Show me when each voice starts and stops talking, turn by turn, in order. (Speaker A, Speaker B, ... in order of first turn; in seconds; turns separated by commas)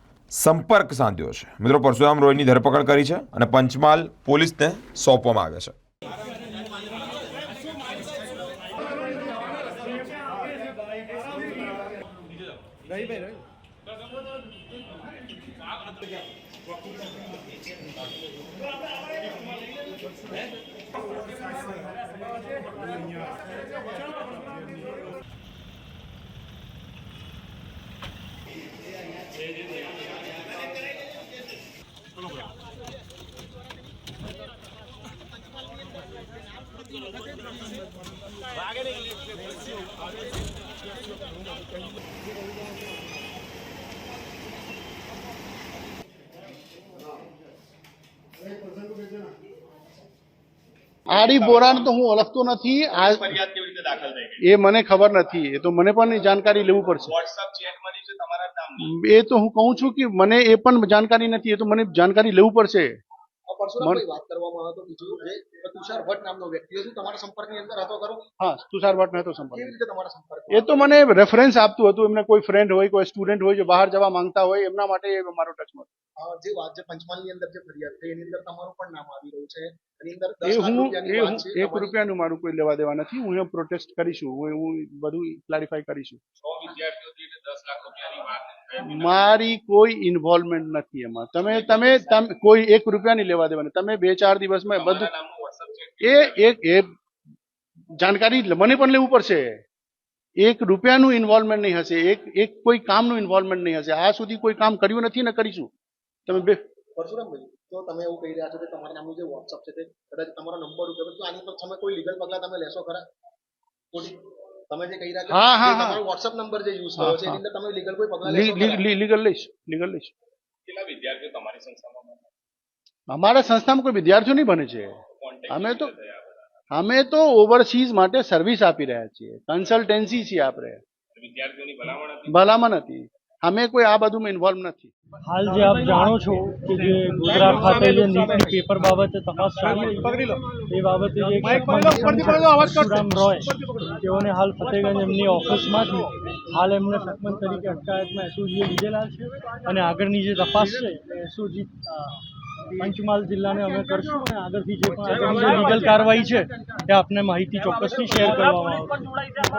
Speaker A: 0.3-5.7, Speaker B: 51.1-53.4, Speaker C: 51.1-51.9, Speaker C: 52.9-54.4, Speaker B: 54.4-57.1, Speaker C: 56.8-58.9, Speaker B: 58.8-62.9, Speaker D: 63.5-68.3, Speaker B: 68.4-69.7, Speaker D: 69.5-71.1, Speaker B: 70.5-75.9, Speaker D: 76.2-82.0, Speaker B: 80.4-86.2, Speaker C: 86.4-89.4, Speaker B: 88.8-95.1, Speaker C: 91.4-92.2, Speaker C: 94.7-96.6, Speaker B: 96.0-96.9, Speaker B: 98.0-99.6, Speaker B: 100.4-105.7, Speaker B: 106.3-106.6, Speaker D: 107.0-113.0, Speaker D: 113.9-114.2, Speaker D: 114.7-118.8, Speaker B: 115.3-116.0, Speaker B: 117.0-117.4, Speaker B: 118.2-120.1, Speaker C: 120.7-122.3, Speaker B: 123.1-125.0, Speaker C: 125.2-126.5, Speaker B: 125.5-125.9, Speaker B: 126.7-130.8, Speaker C: 131.1-132.4, Speaker B: 132.3-134.9, Speaker E: 135.2-152.2, Speaker B: 142.3-142.8, Speaker E: 152.7-159.0